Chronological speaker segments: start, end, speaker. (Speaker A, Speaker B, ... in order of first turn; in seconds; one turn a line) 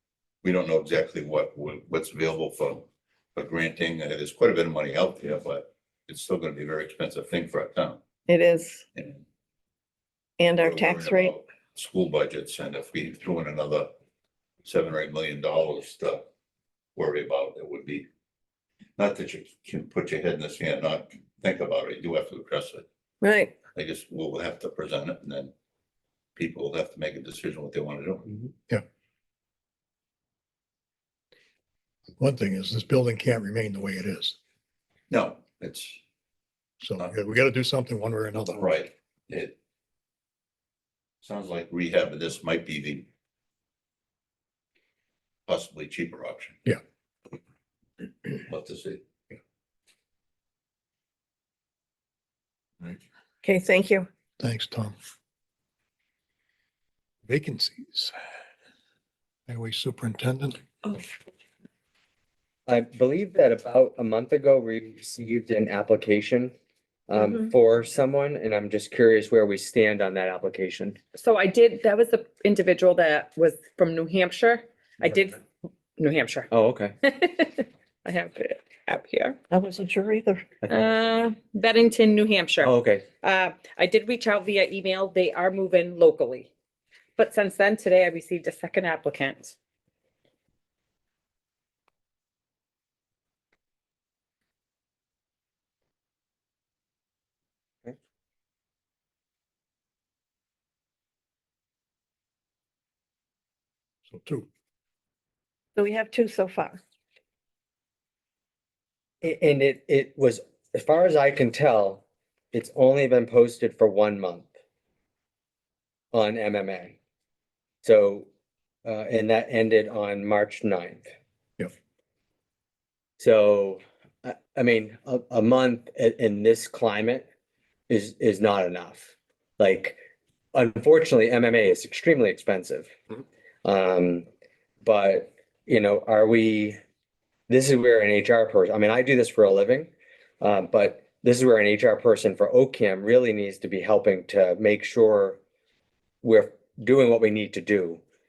Speaker A: 0.4-8.0
Speaker B: 8.3-8.8
Speaker A: 8.9-9.2
Speaker B: 10.4-11.3
Speaker A: 10.6-13.9
Speaker A: 14.6-16.2
Speaker A: 16.9-18.0
Speaker A: 19.0-22.8
Speaker B: 23.2-23.5
Speaker A: 23.7-25.5
Speaker A: 26.4-28.4
Speaker C: 32.2-34.4
Speaker A: 35.1-36.0
Speaker C: 36.8-38.7
Speaker A: 38.5-39.5
Speaker A: 41.2-43.1
Speaker A: 45.5-46.6
Speaker A: 48.4-49.0
Speaker B: 53.4-54.1
Speaker C: 54.4-55.0
Speaker C: 57.2-58.1
Speaker C: 59.5-60.6
Speaker D: 62.7-66.5
Speaker D: 67.1-71.0
Speaker E: 71.1-75.4
Speaker E: 76.0-76.5
Speaker D: 76.5-76.9
Speaker E: 77.0-79.4
Speaker B: 79.5-80.5
Speaker E: 80.7-86.5
Speaker D: 82.6-83.1
Speaker E: 87.2-89.5
Speaker C: 104.1-104.5
Speaker B: 105.8-106.8
Speaker D: 109.2-114.5
Speaker D: 116.1-117.0
Speaker D: 117.8-118.3
Speaker D: 118.8-121.1
Speaker D: 123.2-127.2
Speaker D: 127.9-130.0
Speaker D: 130.5-132.9
Speaker D: 133.6-134.2
Speaker D: 134.8-136.8
Speaker D: 137.5-145.4
Speaker D: 146.2-148.0